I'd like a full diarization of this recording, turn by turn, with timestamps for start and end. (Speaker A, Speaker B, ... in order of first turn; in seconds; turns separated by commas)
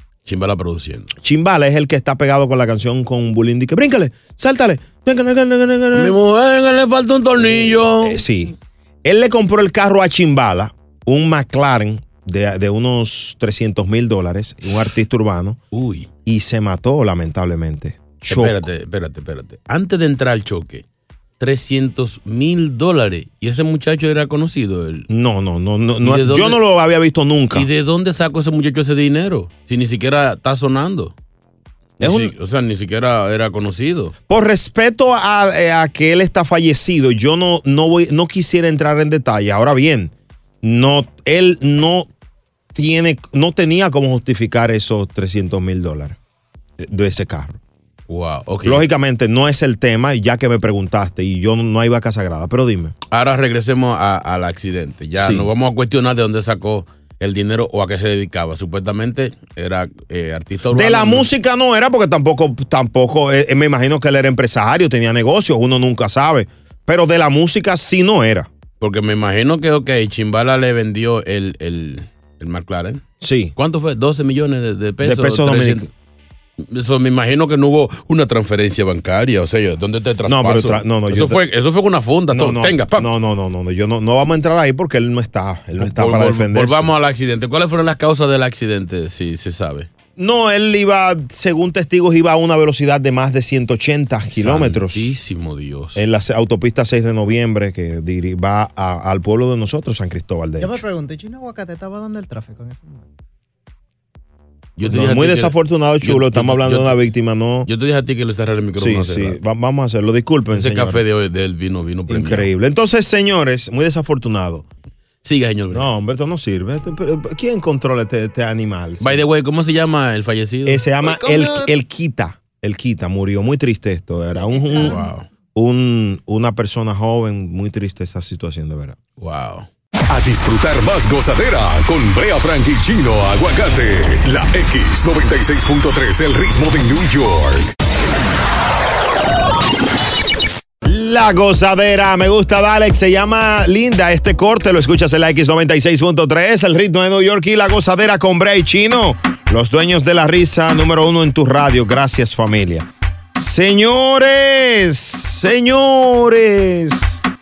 Speaker A: 0.2-1.1, Speaker B: 1.2-6.2, Speaker A: 5.9-8.2, Speaker B: 7.4-15.6, Speaker A: 15.7-16.1, Speaker B: 16.2-18.6, Speaker A: 18.3-20.8, Speaker A: 21.4-25.1, Speaker B: 25.1-27.7, Speaker A: 26.0-26.6, Speaker A: 27.5-31.1, Speaker A: 32.0-34.1, Speaker B: 32.0-32.3, Speaker B: 34.3-42.1, Speaker B: 42.7-46.2, Speaker B: 46.8-47.6, Speaker A: 48.1-48.9, Speaker B: 48.6-52.9, Speaker A: 53.1-61.3, Speaker B: 55.2-55.5, Speaker B: 60.7-68.5, Speaker A: 68.8-73.0, Speaker B: 73.2-73.5, Speaker A: 73.5-75.9, Speaker B: 75.0-75.9, Speaker A: 76.6-83.1, Speaker B: 80.2-81.4, Speaker B: 82.3-86.9, Speaker A: 85.8-89.9, Speaker B: 90.2-95.1, Speaker A: 94.3-96.0, Speaker B: 96.0-100.8, Speaker C: 100.6-103.1, Speaker A: 104.8-107.0, Speaker B: 104.8-107.7, Speaker A: 107.6-109.4, Speaker B: 108.8-111.0, Speaker A: 110.5-112.5, Speaker B: 112.1-114.7, Speaker A: 115.2-115.9, Speaker B: 115.7-119.2, Speaker A: 119.0-121.6, Speaker B: 120.7-125.0, Speaker A: 124.8-125.3, Speaker B: 125.5-129.0, Speaker A: 129.2-129.7, Speaker D: 130.1-137.7, Speaker B: 140.8-157.2